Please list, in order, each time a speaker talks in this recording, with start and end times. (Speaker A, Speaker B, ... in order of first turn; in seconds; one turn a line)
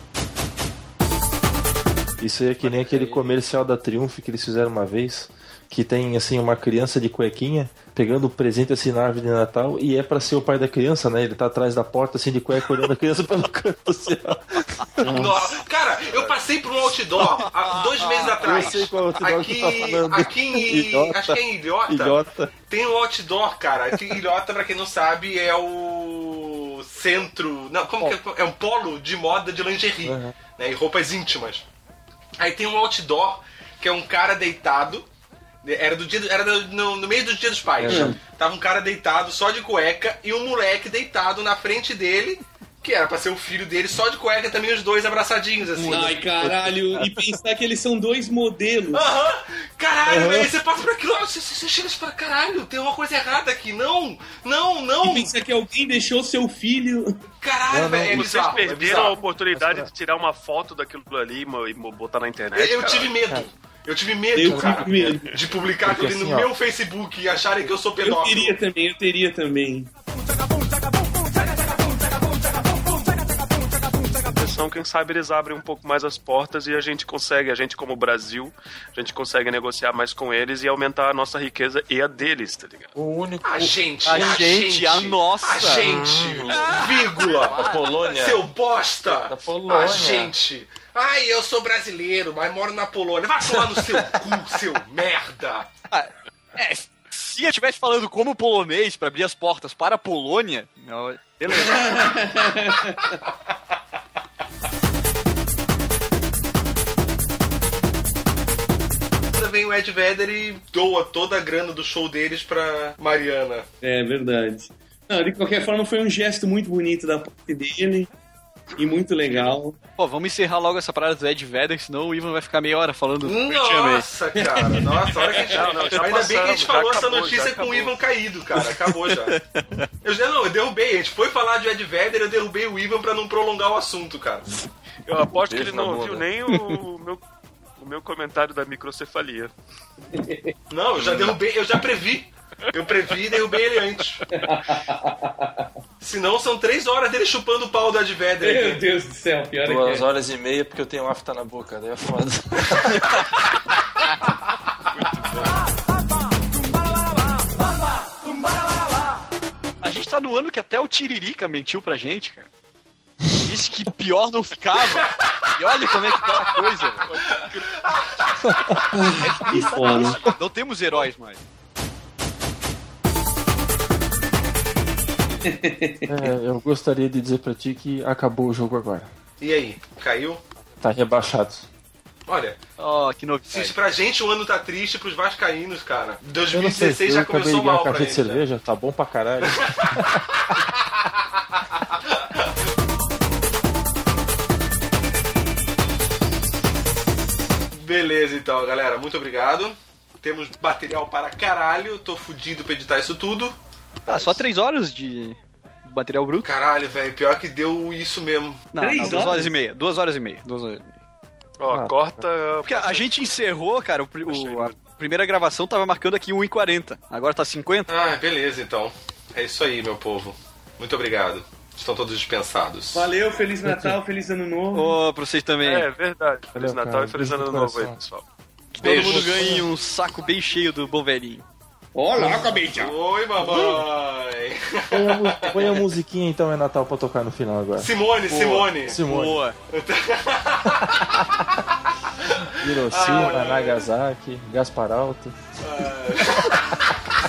Speaker A: 2.2-15.1
Speaker B: 2.6-3.3
Speaker C: 15.0-15.6
Speaker D: 15.0-22.2
Speaker B: 18.1-18.4
Speaker A: 18.4-22.5
Speaker D: 22.7-31.6
Speaker A: 30.0-30.4
Speaker D: 32.4-35.0
Speaker D: 35.6-46.1
Speaker A: 37.8-38.2
Speaker C: 37.9-38.2
Speaker A: 45.8-46.5
Speaker C: 45.9-49.0
Speaker D: 48.9-55.3
Speaker A: 50.1-50.5
Speaker C: 55.0-57.2
Speaker D: 57.4-59.2
Speaker A: 57.7-58.3
Speaker E: 58.1-63.1
Speaker A: 59.5-59.9
Speaker D: 62.5-68.6
Speaker C: 64.3-65.3
Speaker A: 64.4-65.2
Speaker A: 65.8-66.5
Speaker C: 68.0-69.9
Speaker E: 74.3-82.9
Speaker A: 82.9-84.5
Speaker D: 83.4-95.7
Speaker B: 84.0-85.8
Speaker A: 85.8-88.4
Speaker B: 87.6-88.0
Speaker A: 89.0-90.3
Speaker B: 95.9-101.9
Speaker C: 101.5-103.1
Speaker D: 109.3-113.7
Speaker C: 113.8-118.1
Speaker C: 118.8-119.8
Speaker E: 119.3-119.5
Speaker B: 120.0-124.0
Speaker D: 123.2-129.3
Speaker C: 124.3-125.7
Speaker E: 125.5-127.9
Speaker B: 129.3-129.8
Speaker D: 130.0-134.4
Speaker E: 135.1-137.2
Speaker A: 135.5-136.8
Speaker E: 137.8-139.5
Speaker C: 140.1-140.5
Speaker D: 140.7-144.2
Speaker E: 141.1-141.3
Speaker C: 144.3-145.7
Speaker D: 146.0-148.8
Speaker C: 148.4-150.1
Speaker A: 149.6-153.2
Speaker B: 159.8-162.5
Speaker B: 163.4-167.1
Speaker E: 167.0-167.8
Speaker D: 167.9-168.3
Speaker C: 168.9-170.2
Speaker B: 169.2-171.4
Speaker C: 175.4-176.2
Speaker A: 176.1-179.1
Speaker D: 179.4-180.4
Speaker A: 180.8-181.7
Speaker D: 182.3-182.6
Speaker B: 182.8-183.7
Speaker D: 183.5-188.4
Speaker A: 186.5-190.4
Speaker D: 189.5-189.9
Speaker D: 197.7-203.6
Speaker B: 204.1-206.5
Speaker D: 206.4-208.6
Speaker B: 208.7-210.9
Speaker C: 208.8-209.5
Speaker E: 211.6-213.1
Speaker B: 212.6-217.9
Speaker E: 214.3-214.8
Speaker D: 217.9-223.1
Speaker C: 222.9-225.0
Speaker A: 223.6-224.0
Speaker B: 224.7-225.9
Speaker E: 225.6-228.2
Speaker A: 226.5-228.0
Speaker A: 228.8-229.7
Speaker B: 228.8-231.4
Speaker D: 228.8-229.5
Speaker C: 231.9-232.9
Speaker D: 232.7-235.8
Speaker A: 233.4-233.8
Speaker A: 234.9-237.9
Speaker D: 237.8-239.0
Speaker B: 238.3-239.6
Speaker A: 238.8-239.4
Speaker D: 239.7-241.5
Speaker D: 242.2-243.8
Speaker A: 242.5-245.6
Speaker D: 245.6-246.9
Speaker A: 246.2-246.5